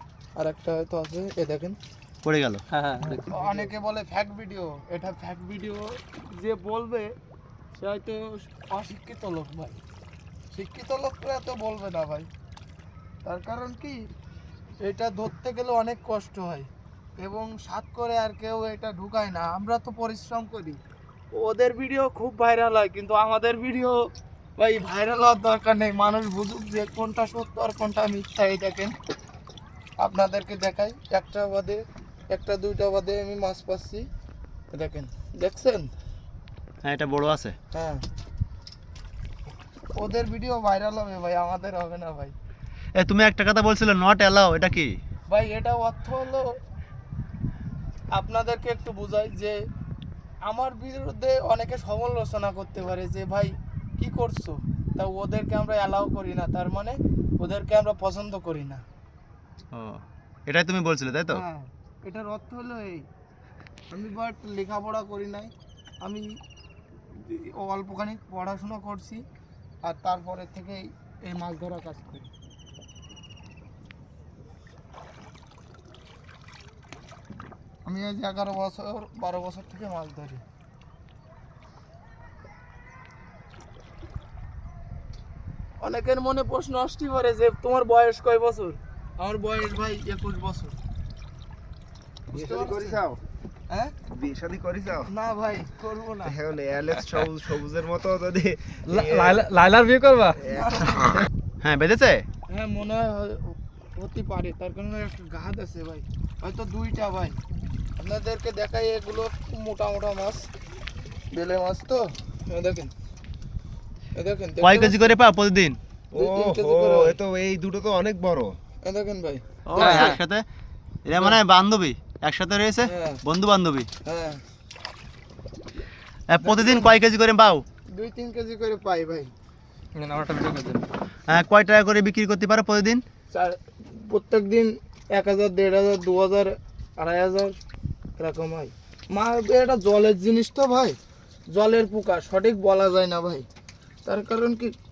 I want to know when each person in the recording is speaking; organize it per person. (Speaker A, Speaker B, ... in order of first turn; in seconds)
Speaker A: 0.3-1.8, 3.0-7.1, 7.7-9.8, 10.5-12.3, 13.2-14.0, 14.8-20.8, 21.3-28.9, 30.0-34.1, 34.7-35.9, 37.7-38.0, 39.9-42.3, 45.3-46.6, 48.1-49.6, 50.4-58.8, 61.3-63.1, 63.9-66.3, 67.1-69.2, 69.8-72.3, 77.8-80.4, 85.8-90.8, 92.3-93.0, 93.7-93.9, 95.1-96.3, 100.4-101.2, 102.5-107.4, 108.0-110.5, 111.3-112.9, 114.1-115.1, 116.1-117.2, 118.8-120.2, 122.8-123.2, 124.0-124.4, 126.4-126.9, 127.9-129.3, 133.3-137.6, 138.2-141.0, 141.5-143.5, 144.0-144.7
Speaker B: 2.2-2.6, 36.8-37.5, 43.0-44.9, 59.7-61.4, 101.6-102.2, 114.6-115.8, 119.6-120.4, 121.0-123.9, 126.3-127.6, 131.3-133.0
Speaker C: 2.7-3.6, 98.9-100.5, 119.8-120.2, 129.9-130.8
Speaker D: 92.3-93.2, 94.1-95.1, 96.2-99.5, 100.4-101.2, 116.1-118.6